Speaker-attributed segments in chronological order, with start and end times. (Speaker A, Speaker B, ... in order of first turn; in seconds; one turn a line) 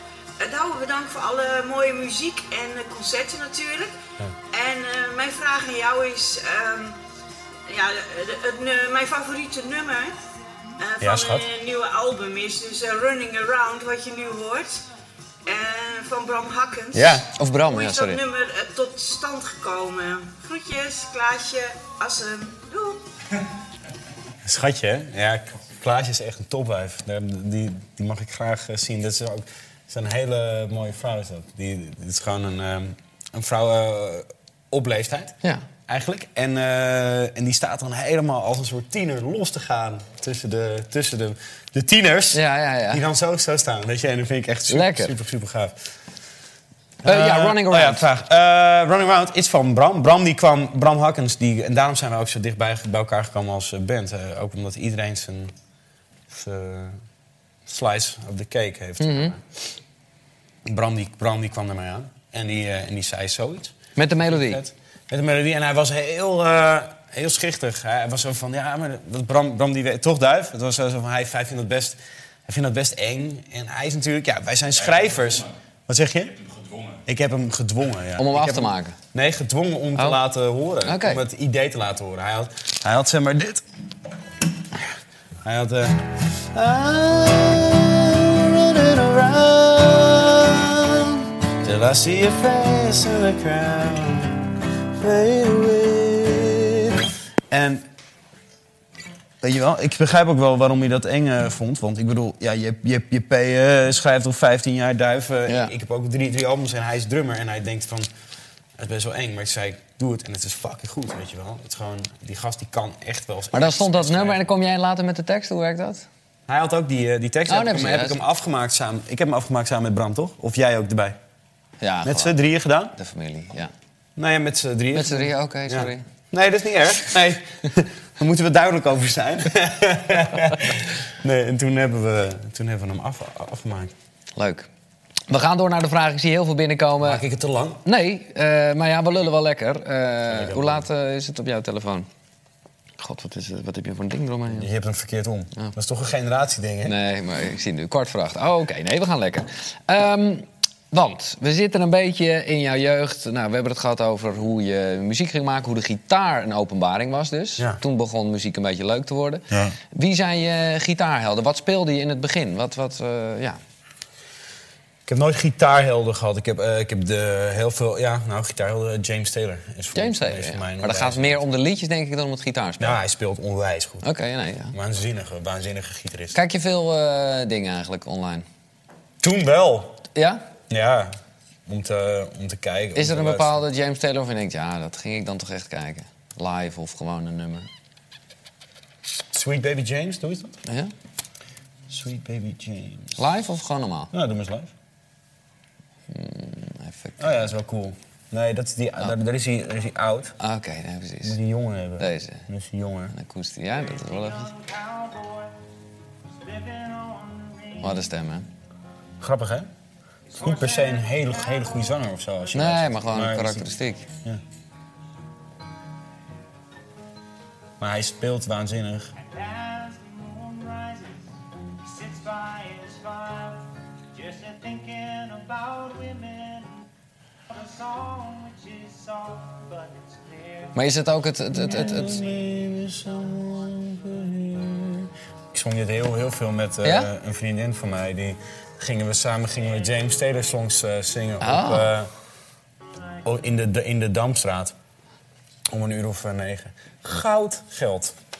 Speaker A: 0.4-3.9
Speaker A: 4.5-7.0
Speaker A: 7.7-10.2
Speaker A: 10.8-14.8
Speaker B: 11.0-11.4
Speaker A: 15.4-23.0
Speaker B: 16.9-17.2
Speaker C: 17.4-18.2
Speaker B: 24.4-35.4
Speaker B: 35.9-45.8
Speaker C: 42.3-43.0
Speaker C: 44.7-45.1
Speaker B: 47.0-55.5
Speaker C: 47.0-48.0
Speaker B: 56.3-57.0
Speaker B: 57.6-59.4
Speaker C: 59.0-59.4
Speaker B: 60.6-76.4
Speaker C: 64.0-64.6
Speaker B: 77.0-83.6
Speaker C: 78.2-79.0
Speaker C: 80.8-81.2
Speaker B: 85.4-97.9
Speaker B: 99.4-108.1
Speaker C: 105.5-105.7
Speaker B: 108.8-114.5
Speaker C: 113.5-116.0
Speaker B: 116.5-121.2
Speaker C: 117.5-118.2
Speaker C: 121.8-122.4
Speaker B: 122.0-122.9
Speaker C: 122.9-123.7
Speaker B: 124.2-133.9
Speaker C: 124.9-126.0
Speaker C: 134.3-134.7
Speaker C: 135.3-137.2
Speaker B: 137.0-137.8
Speaker C: 137.8-142.1
Speaker B: 140.3-140.8
Speaker C: 143.0-144.7
Speaker B: 144.5-146.9
Speaker C: 146.8-163.6
Speaker B: 159.5-159.8
Speaker B: 165.1-171.4
Speaker C: 169.9-173.0
Speaker B: 172.8-174.0
Speaker C: 174.0-174.7
Speaker B: 174.7-176.3
Speaker C: 176.3-178.4
Speaker B: 179.2-180.0
Speaker C: 180.1-180.4
Speaker B: 180.7-181.1
Speaker B: 181.7-183.6
Speaker C: 182.9-187.7
Speaker B: 189.3-190.6
Speaker B: 191.9-193.2
Speaker C: 193.2-194.1
Speaker B: 194.1-194.7
Speaker C: 196.1-197.5
Speaker B: 197.2-200.3
Speaker C: 200.4-201.4
Speaker B: 201.2-203.1
Speaker C: 202.0-202.4
Speaker C: 203.1-204.5
Speaker B: 203.9-205.5
Speaker B: 206.4-207.9
Speaker C: 207.8-208.5
Speaker B: 209.2-209.7
Speaker B: 210.3-214.4
Speaker C: 212.5-214.1
Speaker B: 217.8-221.2
Speaker B: 221.8-223.6
Speaker B: 224.1-226.7
Speaker B: 227.5-230.0
Speaker C: 230.7-232.2
Speaker B: 231.5-242.1
Speaker C: 236.8-237.1
Speaker C: 241.4-241.9
Speaker B: 243.2-244.7
Speaker B: 245.7-248.1